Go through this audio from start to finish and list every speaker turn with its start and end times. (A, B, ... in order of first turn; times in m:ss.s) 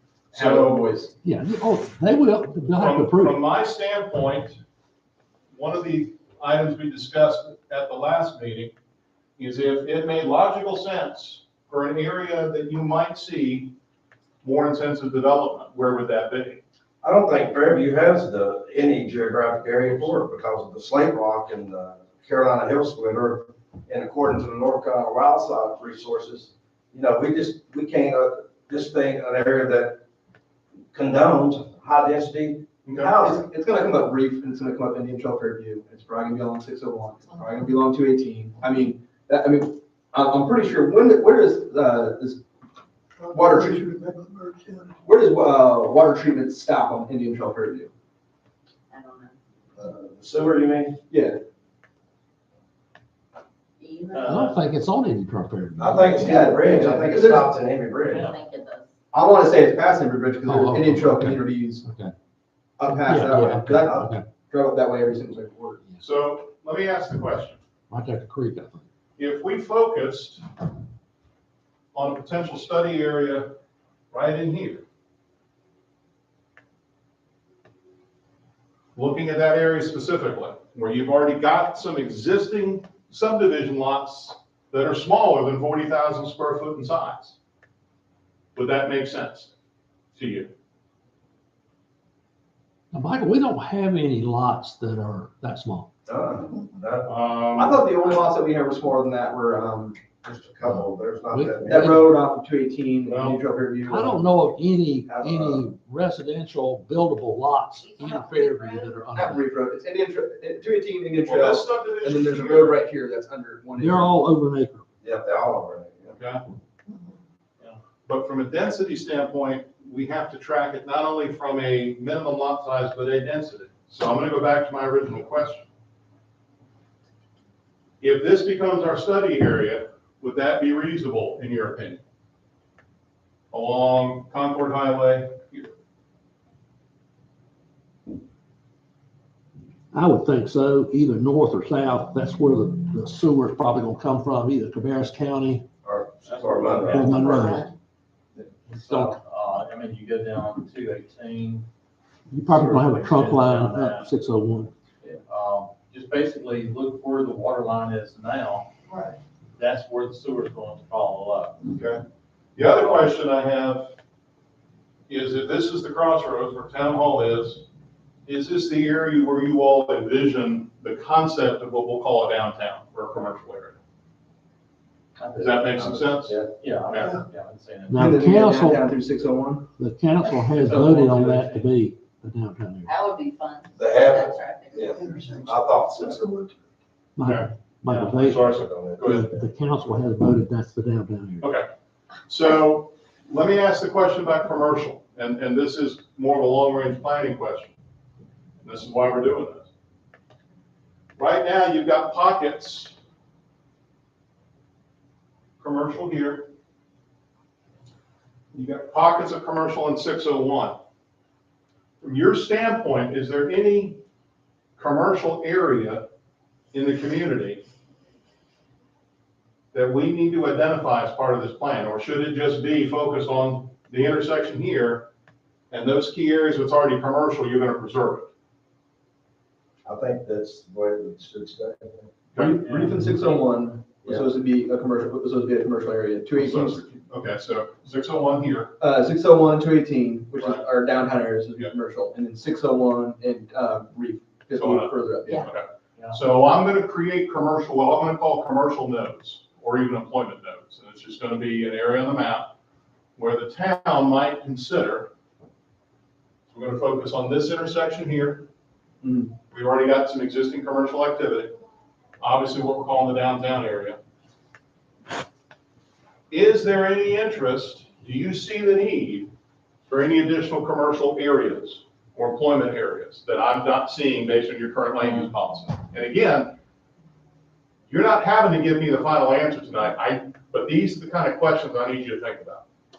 0:00.3-0:00.8 A
0:00.3-0:01.1 B
0:01.2-0:03.4 C
0:02.8-0:04.6 A
0:05.5-0:08.7 A
0:09.4-0:13.8 A
0:14.4-0:16.6 A
0:17.0-0:30.0 D
0:30.9-0:32.7 D
0:32.9-0:33.2 A
0:33.0-0:42.4 B
0:43.3-0:43.9 B
0:43.9-0:44.5 D
0:45.0-0:47.9 B
0:48.9-0:49.3 E
0:49.8-0:51.0 D
0:51.1-0:51.4 B
0:53.8-0:54.5 E
0:54.1-0:54.6 F
0:54.2-0:56.2 C
0:55.8-0:58.3 D
0:56.2-0:57.5 B
0:58.1-0:58.9 E
0:59.1-1:01.8 B
1:00.5-1:02.1 C
1:02.8-1:05.8 B
1:03.0-1:04.2 C
1:06.0-1:07.6 A
1:07.9-1:08.8 C
1:09.2-1:10.4 A
1:11.9-1:13.6 A
1:14.1-1:14.8 A
1:19.0-1:27.4 A
1:28.6-1:29.5 A
1:30.2-1:30.5 A
1:32.9-1:35.9 C
1:36.1-1:37.2 D
1:37.1-1:37.8 A
1:37.6-1:40.0 B
1:40.2-1:41.9 D
1:41.3-1:42.0 C
1:41.7-1:44.2 B
1:43.1-1:43.4 A
1:43.9-1:49.4 C
1:45.1-1:45.7 D
1:47.8-1:49.0 E
1:49.2-1:54.2 B
1:51.2-1:52.8 A
1:53.8-1:54.8 C
1:55.0-1:56.2 D
1:56.1-1:56.4 A
1:58.1-2:05.7 A
2:08.0-2:12.0 A
2:13.5-2:15.8 A
2:19.9-2:25.6 C
2:25.8-2:27.4 D
2:26.2-2:27.3 F
2:26.9-2:27.7 C
2:27.0-2:27.6 E
2:28.7-2:31.7 F
2:28.8-2:29.2 C
2:32.3-2:34.7 C
2:32.5-2:34.1 F
2:35.3-2:38.7 F
2:39.6-2:41.6 F
2:41.7-2:42.0 A
2:42.6-2:43.9 A
2:42.8-2:43.1 F
2:45.1-2:47.7 A
2:48.3-2:53.8 A
2:55.2-2:56.0 F
2:55.4-2:57.2 A
2:56.5-2:58.2 F
2:57.9-2:58.9 C
2:57.9-2:59.7 B
2:59.8-3:02.9 C
3:00.6-3:01.7 F
3:02.8-3:05.4 E
3:03.8-3:06.5 D
3:07.2-3:11.5 C
3:07.2-3:09.3 A
3:08.6-3:09.0 D
3:11.4-3:11.7 A
3:12.3-3:17.7 A
3:18.6-3:19.7 A
3:21.2-3:23.0 A
3:25.6-3:26.5 A
3:28.5-3:30.8 A
3:32.0-3:34.0 A
3:34.8-3:36.1 A
3:36.7-3:37.6 A
3:39.7-3:45.1 A
3:45.7-3:48.3 A
3:49.8-3:52.1 D
3:52.4-3:52.6 A
3:52.4-3:56.9 B
3:52.6-3:53.4 F
3:56.3-3:58.7 A
3:58.8-4:05.5 B
4:00.4-4:00.6 A
4:04.6-4:12.5 A
4:13.2-4:15.1 A
4:16.5-4:18.5 A
4:19.0-4:19.3 B
4:19.5-4:21.6 A
4:22.2-4:24.0 A
4:26.3-4:29.3 A
4:29.9-4:36.6 A
4:35.0-4:35.3 F
4:37.9-4:42.6 A